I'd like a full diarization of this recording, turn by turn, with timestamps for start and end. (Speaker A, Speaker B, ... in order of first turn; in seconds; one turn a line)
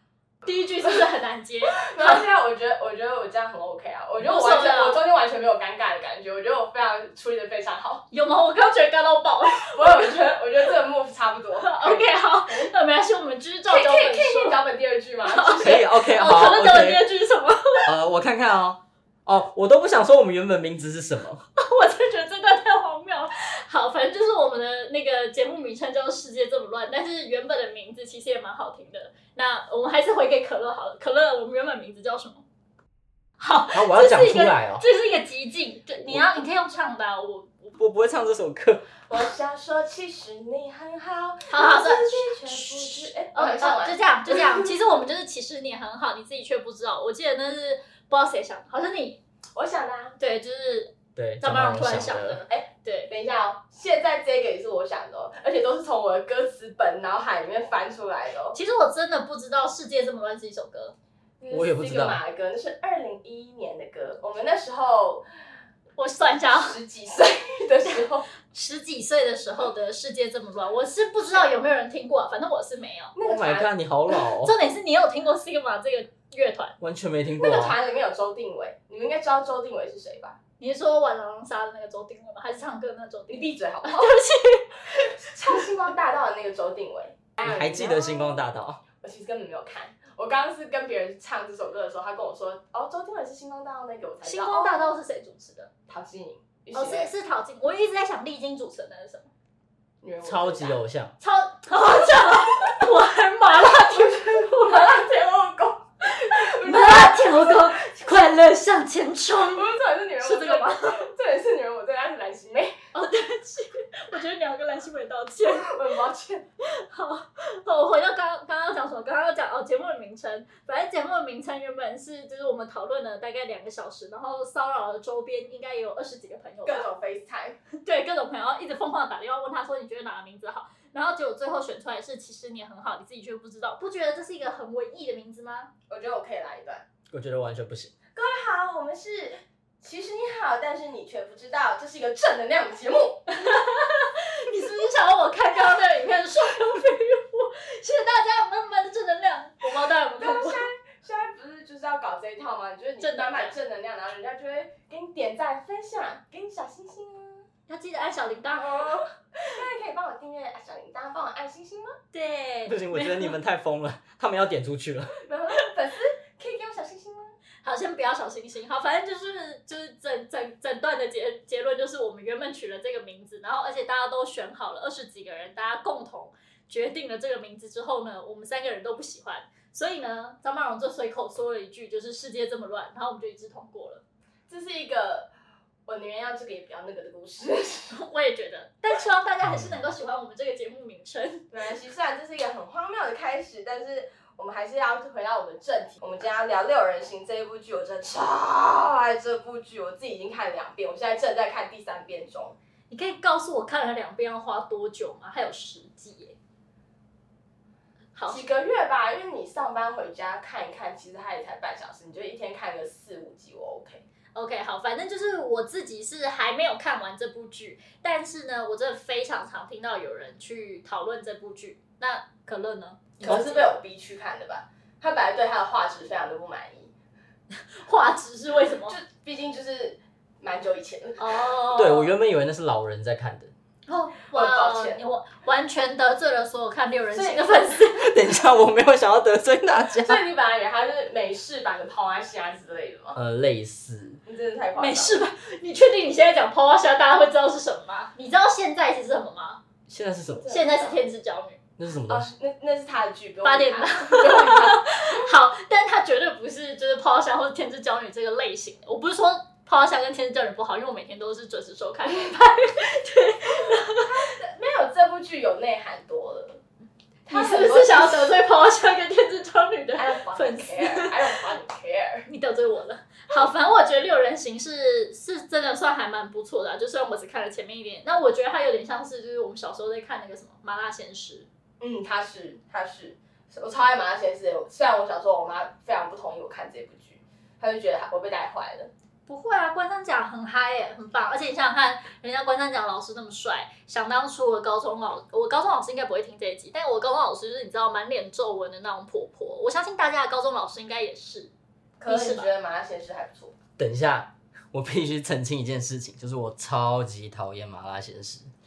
Speaker A: 0.4-2.3
Speaker B: 1.7-8.0
Speaker A: 4.2-5.0
Speaker A: 8.1-10.3
Speaker B: 9.6-12.7
Speaker A: 11.6-14.6
Speaker B: 13.7-15.8
Speaker A: 15.2-17.9
Speaker C: 15.5-17.0
Speaker C: 17.8-21.4
Speaker A: 21.6-32.4
Speaker A: 33.4-37.8
Speaker C: 33.7-34.8
Speaker C: 36.0-36.3
Speaker C: 37.8-38.9
Speaker B: 39.1-44.7
Speaker A: 41.5-49.2
Speaker B: 49.5-50.2
Speaker A: 50.2-53.1
Speaker C: 51.1-52.4
Speaker B: 52.5-58.6
Speaker A: 58.5-60.9
Speaker B: 61.4-65.2
Speaker C: 61.5-62.2
Speaker A: 66.0-66.8
Speaker B: 66.4-68.3
Speaker A: 68.5-73.2
Speaker B: 73.2-73.7
Speaker C: 73.2-74.5
Speaker A: 74.1-76.8
Speaker C: 76.8-77.8
Speaker B: 77.4-80.4
Speaker A: 80.6-85.6
Speaker B: 83.3-84.2
Speaker B: 85.0-88.4
Speaker C: 87.4-88.8
Speaker B: 89.0-94.8
Speaker A: 94.2-95.7
Speaker B: 95.9-97.1
Speaker A: 96.7-99.3
Speaker B: 100.0-100.8
Speaker C: 100.2-101.1
Speaker A: 101.2-105.0
Speaker B: 102.3-102.8
Speaker B: 103.5-107.8
Speaker A: 106.2-109.7
Speaker B: 109.5-112.7
Speaker A: 110.2-111.0
Speaker A: 112.9-115.7
Speaker B: 115.4-116.4
Speaker A: 116.6-126.9
Speaker B: 126.7-127.6
Speaker A: 127.8-135.7
Speaker B: 135.9-136.8
Speaker C: 137.1-137.9
Speaker B: 138.1-143.2
Speaker A: 143.3-150.7
Speaker B: 150.2-157.4
Speaker A: 153.0-153.5
Speaker A: 157.7-159.0
Speaker B: 158.6-161.9
Speaker A: 162.1-163.3
Speaker C: 162.7-165.1
Speaker B: 165.2-167.3
Speaker A: 167.6-184.0
Speaker B: 184.5-185.3
Speaker B: 185.9-188.1
Speaker A: 187.9-191.5
Speaker C: 189.4-189.7
Speaker B: 191.5-202.6
Speaker A: 202.9-206.3
Speaker A: 208.1-208.4
Speaker B: 208.3-214.0
Speaker A: 214.3-223.7
Speaker B: 223.2-226.9
Speaker A: 227.7-229.0
Speaker B: 228.8-231.5
Speaker A: 231.2-232.1
Speaker C: 231.8-233.5
Speaker A: 233.9-238.1
Speaker B: 234.3-235.0
Speaker B: 237.1-237.9
Speaker C: 238.0-240.2
Speaker B: 240.0-243.2
Speaker C: 243.1-244.2
Speaker B: 244.2-245.2
Speaker A: 244.8-249.6
Speaker C: 249.9-250.5
Speaker B: 250.3-251.0
Speaker A: 250.5-251.6
Speaker C: 251.8-252.3
Speaker B: 252.1-255.2
Speaker A: 253.4-264.3
Speaker B: 263.9-266.6
Speaker B: 267.2-268.4
Speaker A: 267.3-271.1
Speaker B: 269.9-272.3
Speaker A: 272.3-281.5
Speaker B: 281.8-288.9
Speaker A: 289.3-301.5
Speaker B: 302.0-303.6
Speaker A: 302.1-302.5
Speaker C: 303.8-308.5